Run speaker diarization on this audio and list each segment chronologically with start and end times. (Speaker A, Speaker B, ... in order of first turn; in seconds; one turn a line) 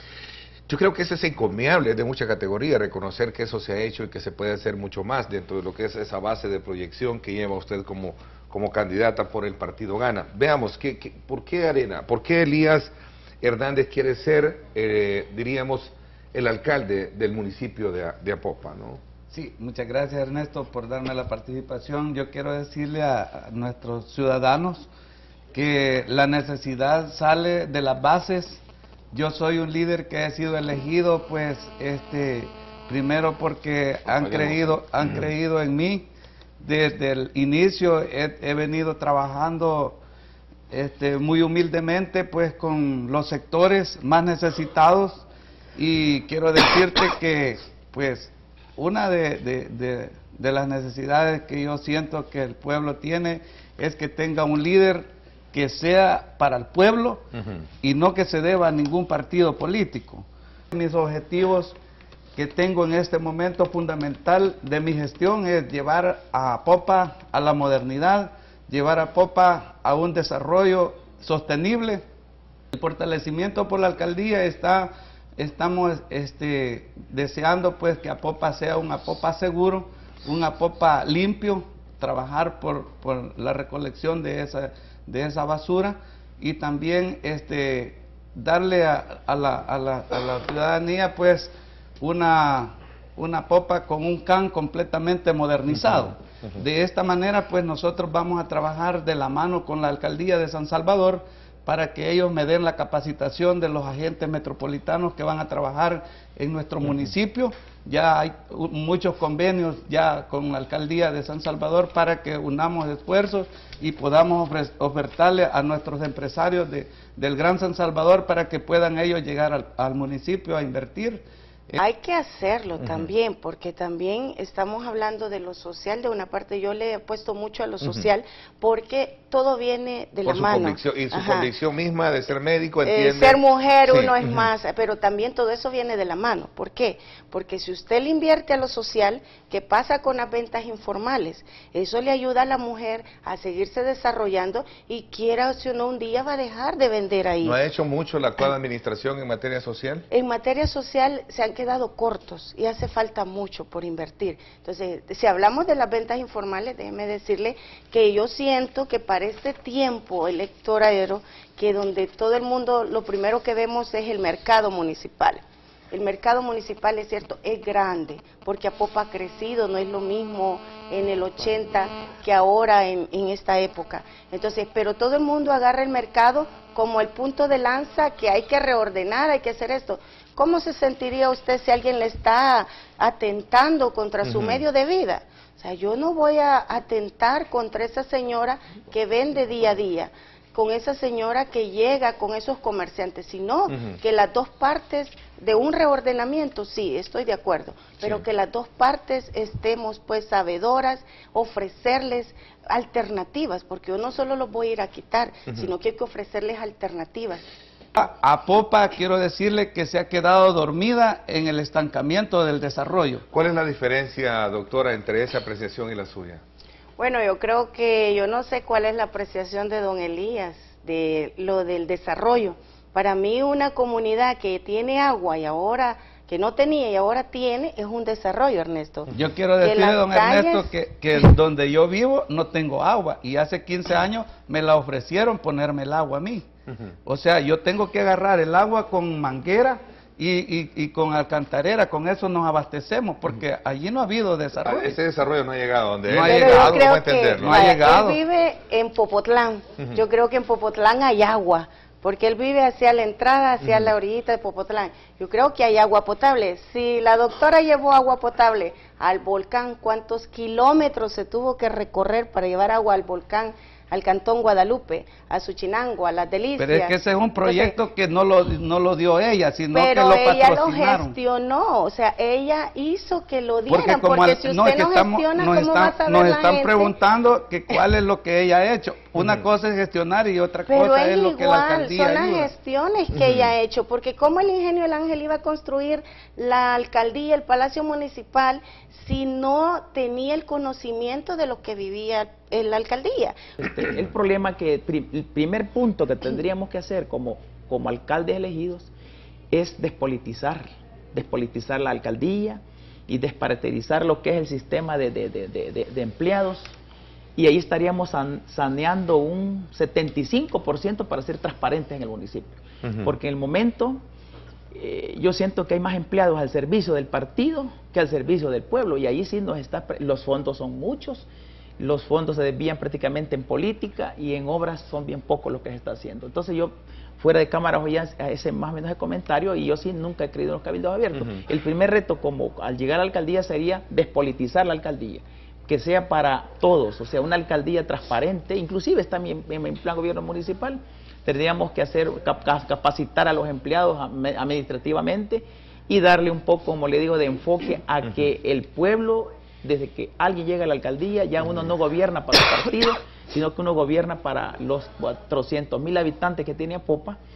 Speaker A: 0.7-19.0
Speaker B: 19.3-24.9
Speaker B: 25.5-36.1
Speaker B: 36.6-40.0
Speaker B: 40.7-45.2
Speaker B: 45.8-57.3
Speaker B: 57.8-61.8
Speaker B: 62.4-72.0
Speaker B: 72.7-121.8
Speaker C: 121.8-131.5
Speaker A: 130.2-134.1
Speaker C: 132.8-147.6
Speaker A: 147.4-150.1
Speaker C: 150.1-207.4
Speaker A: 184.2-184.6
Speaker B: 207.9-213.2
Speaker A: 213.3-216.4
Speaker C: 217.0-230.7
Speaker B: 229.1-236.4
Speaker B: 237.1-244.9
Speaker A: 244.6-247.7
Speaker B: 246.1-248.2
Speaker C: 246.2-267.7
Speaker B: 266.6-271.2
Speaker C: 269.7-276.9
Speaker B: 273.7-282.5
Speaker C: 280.7-293.5
Speaker D: 293.6-298.9
Speaker D: 299.5-306.7
Speaker D: 307.4-314.0
Speaker A: 312.8-313.1
Speaker D: 314.7-321.3
Speaker D: 321.8-357.2